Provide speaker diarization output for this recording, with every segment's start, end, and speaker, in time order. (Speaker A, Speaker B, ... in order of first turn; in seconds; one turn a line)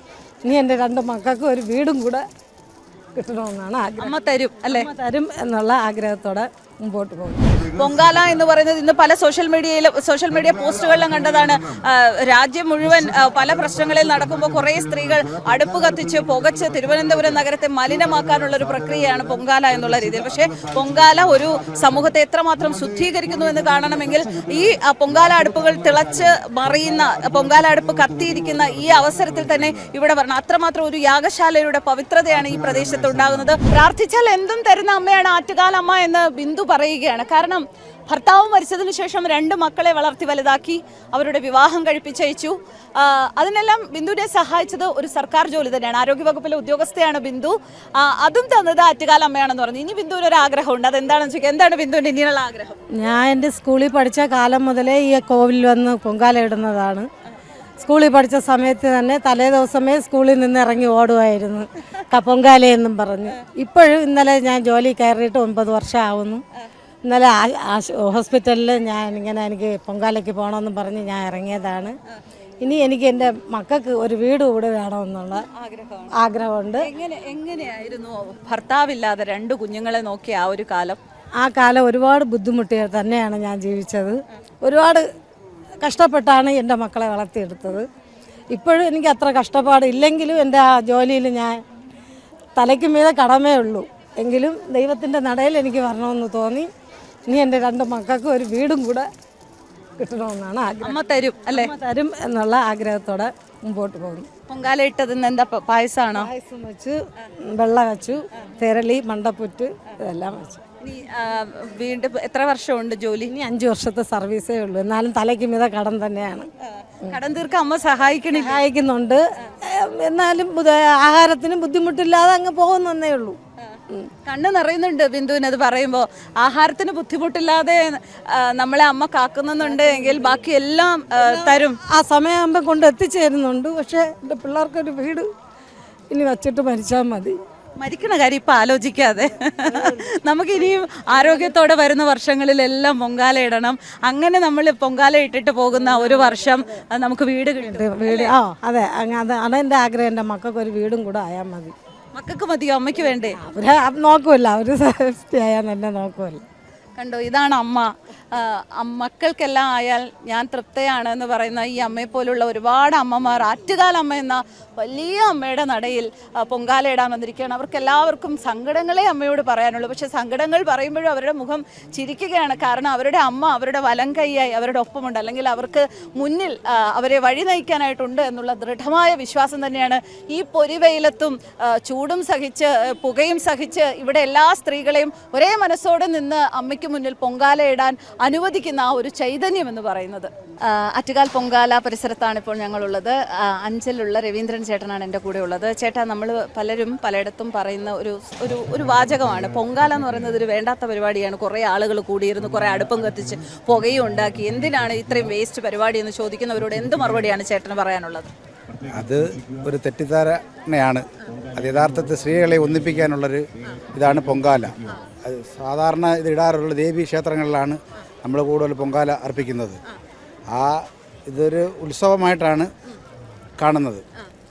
Speaker A: 0.4-2.2
Speaker A: 3.1-4.1
Speaker B: 4.0-4.9
Speaker A: 4.7-7.7
Speaker B: 7.6-52.8
Speaker A: 52.9-57.1
Speaker A: 57.8-66.4
Speaker A: 67.0-72.0
Speaker A: 72.6-75.5
Speaker B: 75.4-76.1
Speaker A: 76.1-76.9
Speaker B: 76.8-81.0
Speaker A: 81.4-85.1
Speaker A: 85.8-87.8
Speaker A: 88.5-91.6
Speaker A: 92.5-96.7
Speaker A: 97.3-99.1
Speaker A: 100.0-104.3
Speaker B: 100.8-101.7
Speaker B: 104.5-106.3
Speaker A: 106.1-110.6
Speaker B: 110.8-113.3
Speaker A: 113.3-116.5
Speaker B: 116.8-118.6
Speaker A: 118.3-123.4
Speaker B: 123.6-131.8
Speaker A: 129.7-130.2
Speaker A: 131.2-135.3
Speaker A: 136.1-137.4
Speaker B: 137.8-148.3
Speaker A: 139.7-140.0
Speaker A: 147.6-151.7
Speaker B: 152.1-153.4
Speaker A: 153.3-156.4
Speaker B: 157.0-208.3
Speaker C: 208.9-219.8
Speaker C: 220.5-222.7
Speaker C: 223.6-224.0